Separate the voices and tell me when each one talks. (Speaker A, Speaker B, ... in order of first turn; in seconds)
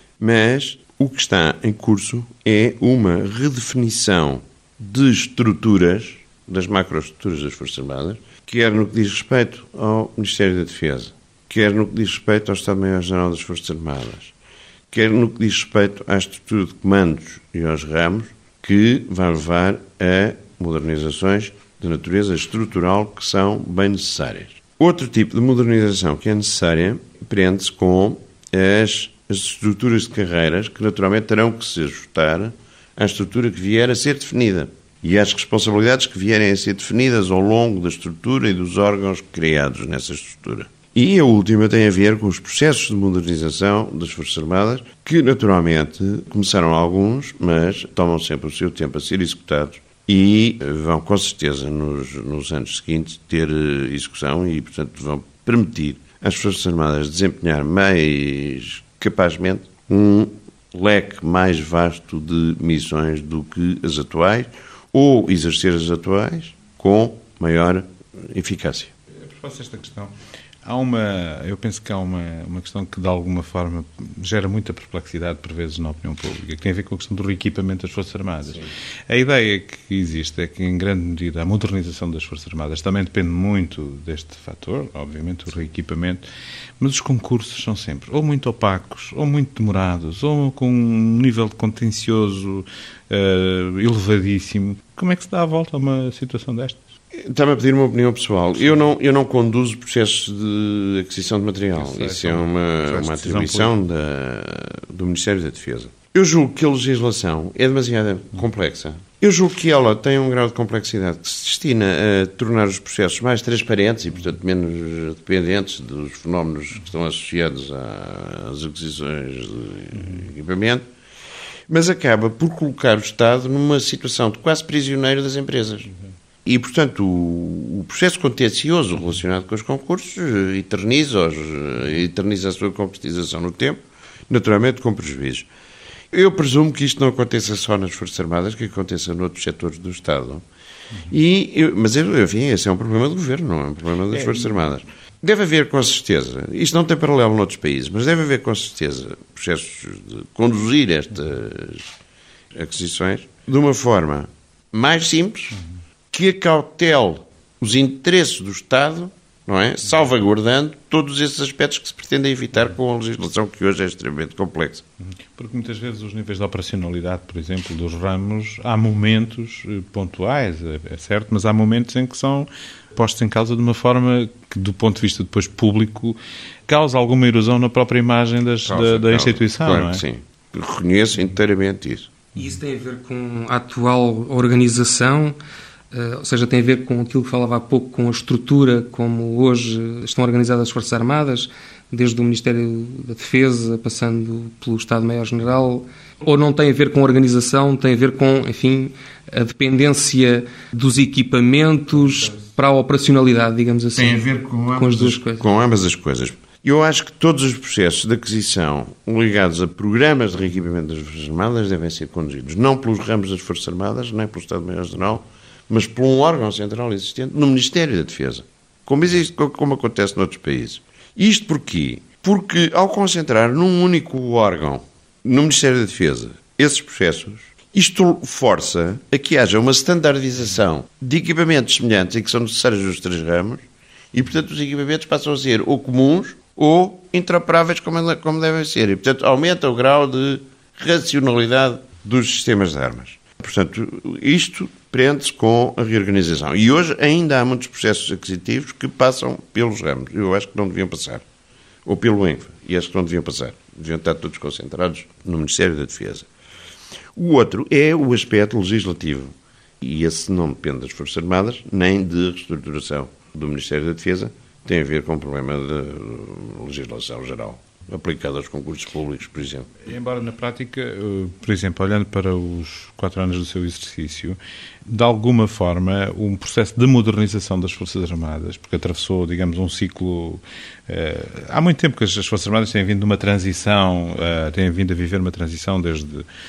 Speaker A: 0.2-14.3, 14.9-68.9, 97.1-120.9, 121.7-125.9, 126.4-135.5, 136.1-140.4, 141.1-151.9, 152.5-155.6, 156.1-164.8, 178.6-182.1, 203.9-251.2, 251.8-256.3, 257.1-269.8
Speaker B: 69.2-70.1, 70.6-86.2, 86.8-96.8, 101.8-103.7, 144.2-144.5, 165.0-176.2, 176.7-180.0, 269.9-286.2
Speaker C: 182.3-185.4, 185.9-204.2, 204.7-205.4